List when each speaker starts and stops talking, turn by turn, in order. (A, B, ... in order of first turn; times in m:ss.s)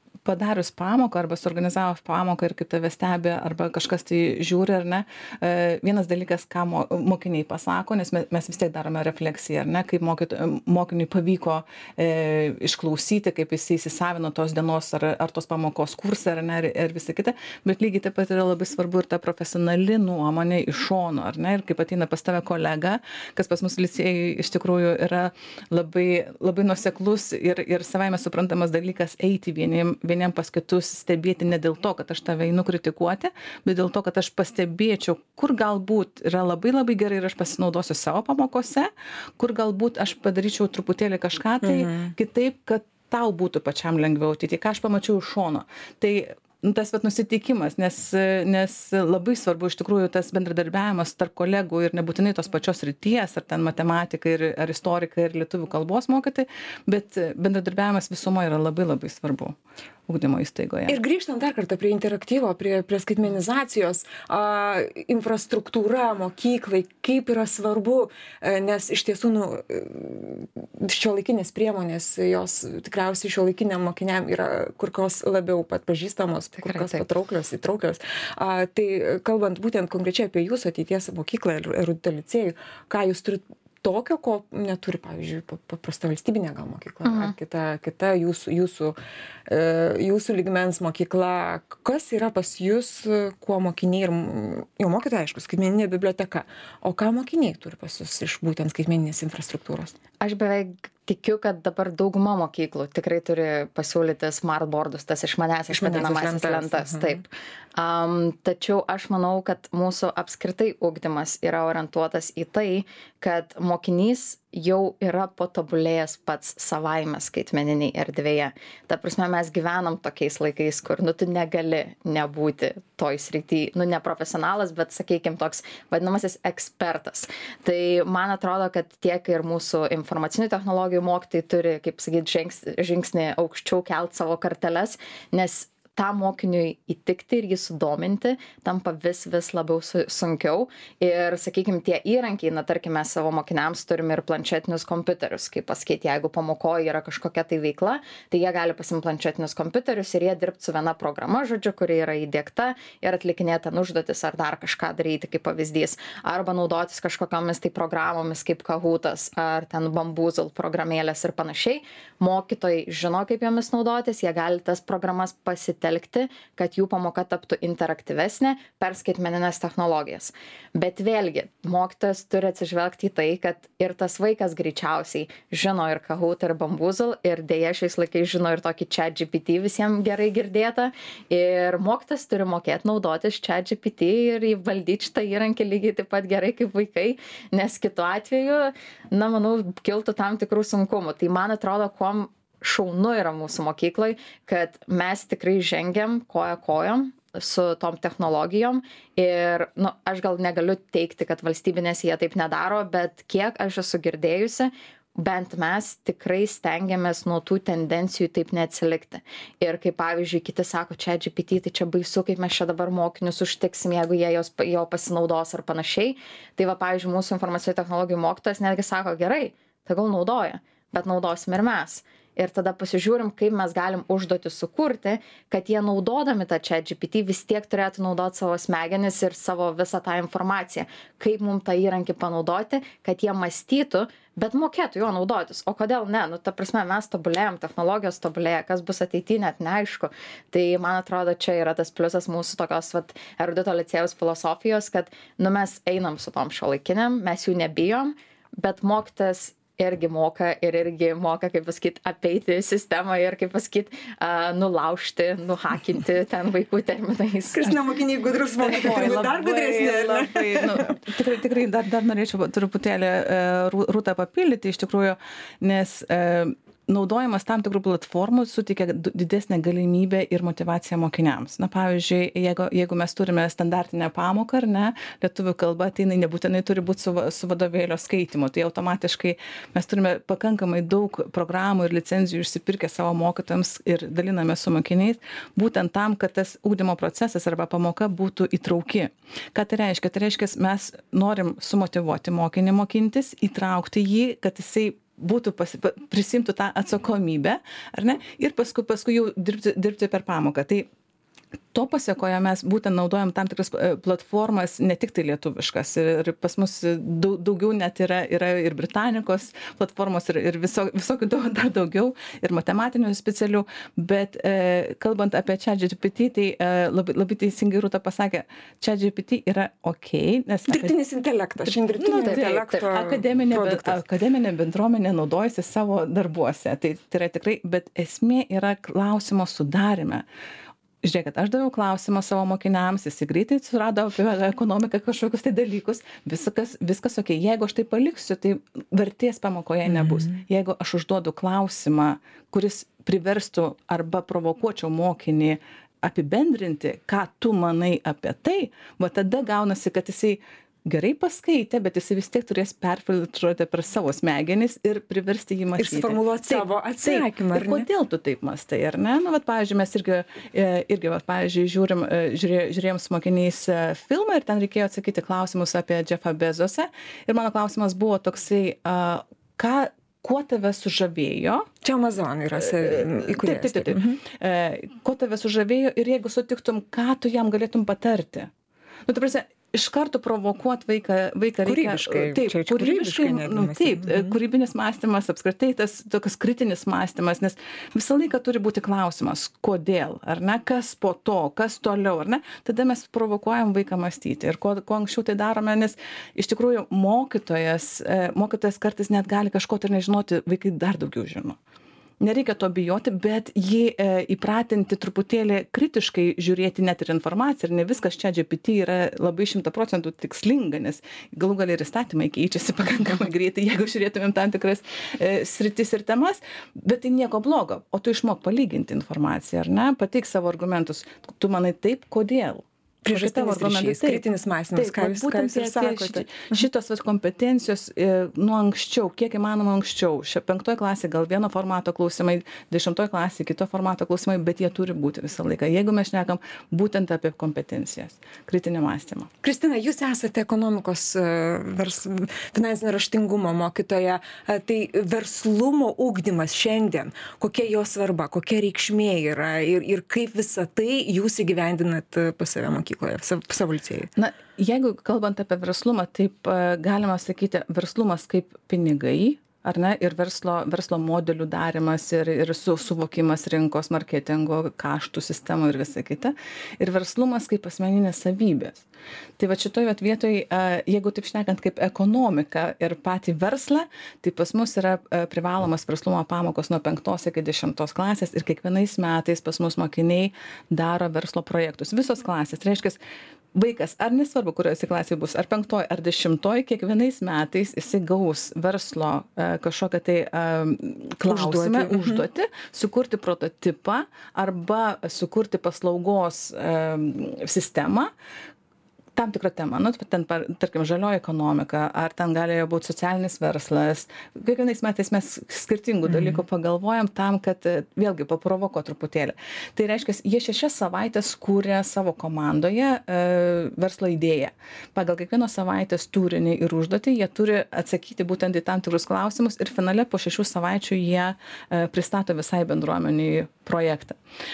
0:00.2-0:59.5 A
0:41.6-0:42.1 B
1:00.1-1:01.0 A
1:00.9-1:29.0 B
1:16.6-1:17.0 C
1:27.0-1:27.3 C
1:29.5-1:39.9 B
1:40.2-4:17.7 C
1:45.7-1:47.2 B
4:17.5-4:20.9 B
4:18.6-5:00.9 A
5:01.7-5:20.9 A
5:20.7-5:24.0 B
5:21.6-5:30.2 A
5:22.2-5:22.8 C
5:31.0-6:11.7 A
5:39.9-5:40.3 B
5:55.8-5:57.9 B
6:11.8-6:14.2 B
6:12.6-6:18.5 A
6:19.1-6:41.6 A
6:21.6-6:24.4 B
6:42.2-7:04.2 A
7:03.0-7:06.6 B
7:04.7-7:19.3 A
7:19.4-7:34.1 B
7:34.2-7:48.8 A
7:49.4-8:03.0 A
8:03.5-8:18.1 A
8:11.2-8:12.2 B
8:19.2-8:44.2 A
8:26.1-8:26.4 B